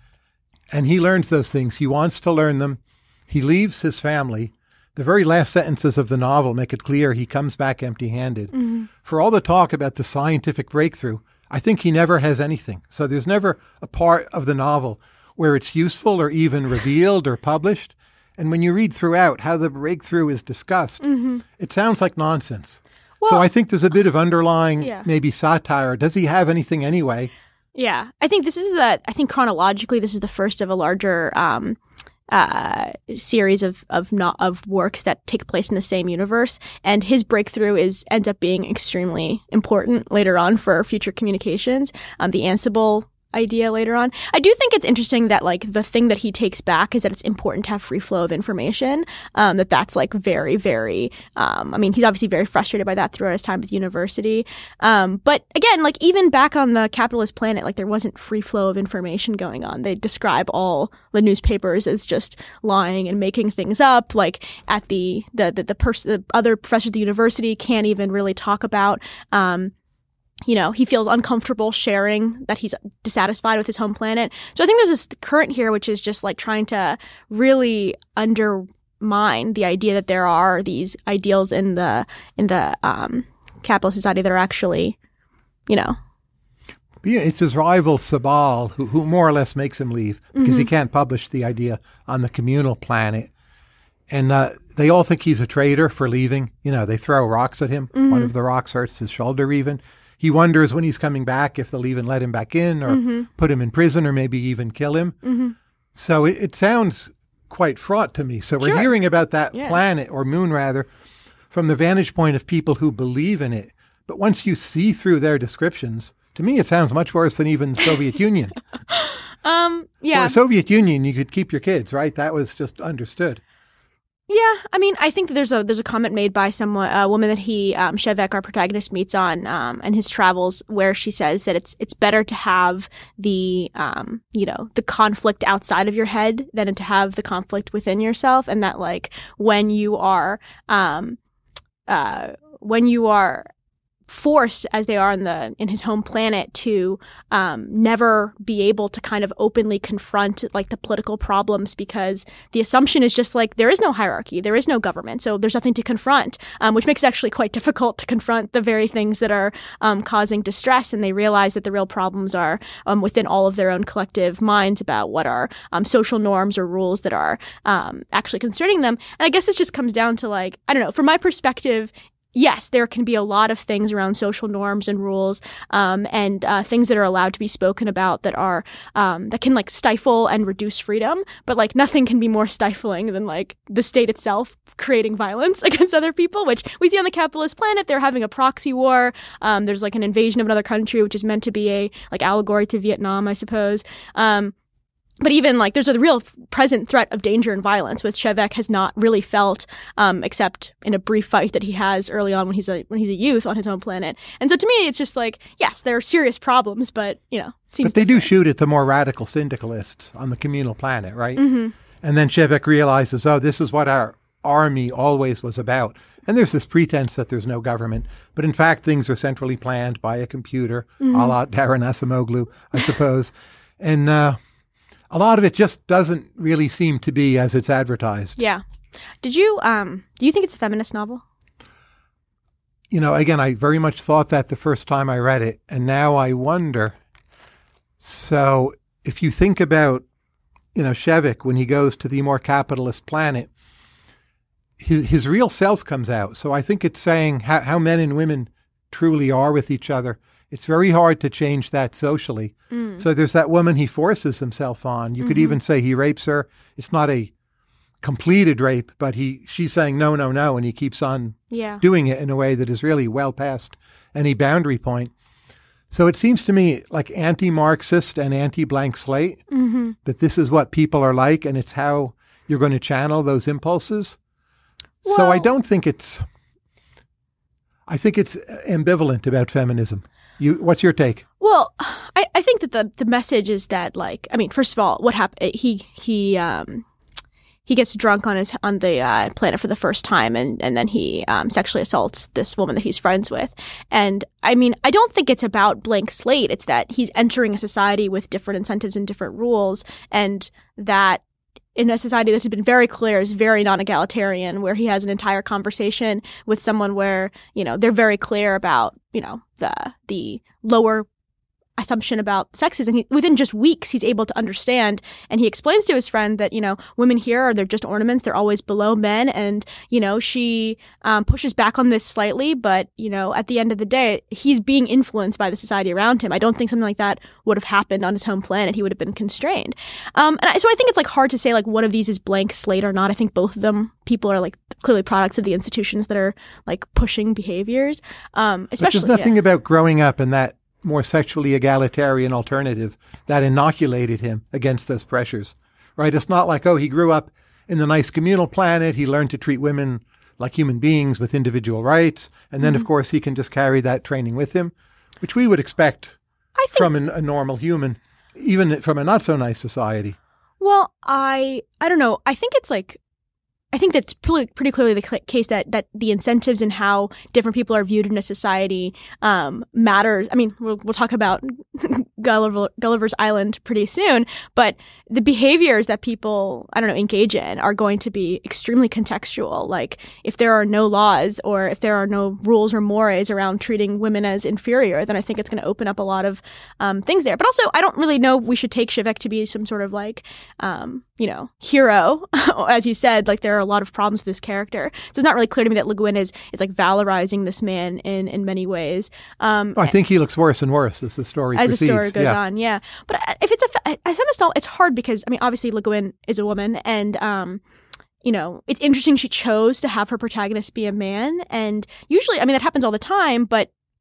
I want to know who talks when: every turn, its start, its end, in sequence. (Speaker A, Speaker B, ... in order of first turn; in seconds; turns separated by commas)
Speaker A: 0.7-21.0, Speaker B: 8.5-8.9, Speaker B: 21.0-21.4, Speaker A: 21.6-27.3, Speaker B: 23.2-23.5, Speaker B: 24.8-25.1, Speaker B: 27.8-31.8, Speaker B: 32.3-69.7, Speaker B: 70.5-85.0, Speaker B: 85.7-86.0, Speaker A: 87.0-93.3, Speaker B: 90.3-90.7, Speaker A: 94.1-105.2, Speaker B: 97.9-98.3, Speaker B: 102.9-103.3, Speaker B: 105.2-105.5, Speaker A: 106.0-110.9, Speaker B: 108.6-108.9, Speaker B: 109.5-109.8, Speaker A: 111.5-118.6, Speaker B: 118.9-120.4, Speaker A: 120.1-123.4, Speaker B: 124.3-141.2, Speaker B: 141.9-143.5, Speaker B: 144.1-194.5, Speaker B: 195.2-208.3, Speaker A: 207.8-211.5, Speaker B: 211.4-211.7, Speaker A: 212.0-224.4, Speaker B: 221.0-221.3, Speaker A: 225.1-228.4, Speaker B: 228.4-228.6, Speaker B: 229.2-231.2, Speaker A: 232.9-236.9, Speaker A: 238.0-240.1, Speaker A: 240.7-243.5, Speaker A: 244.8-257.3, Speaker B: 252.7-253.0, Speaker B: 255.2-255.6, Speaker A: 258.0-265.1, Speaker B: 261.5-261.8, Speaker A: 265.9-269.4, Speaker B: 269.5-270.0, Speaker A: 270.0-274.2, Speaker B: 275.0-275.5, Speaker A: 275.0-276.2, Speaker A: 277.9-281.2, Speaker B: 281.4-286.9, Speaker B: 287.7-301.2, Speaker B: 301.8-311.1, Speaker B: 311.8-339.3, Speaker A: 338.8-356.2, Speaker B: 356.6-356.9, Speaker A: 356.7-360.2, Speaker B: 360.6-363.0, Speaker B: 363.7-399.9, Speaker A: 399.8-402.4, Speaker B: 401.6-407.6, Speaker B: 408.2-413.7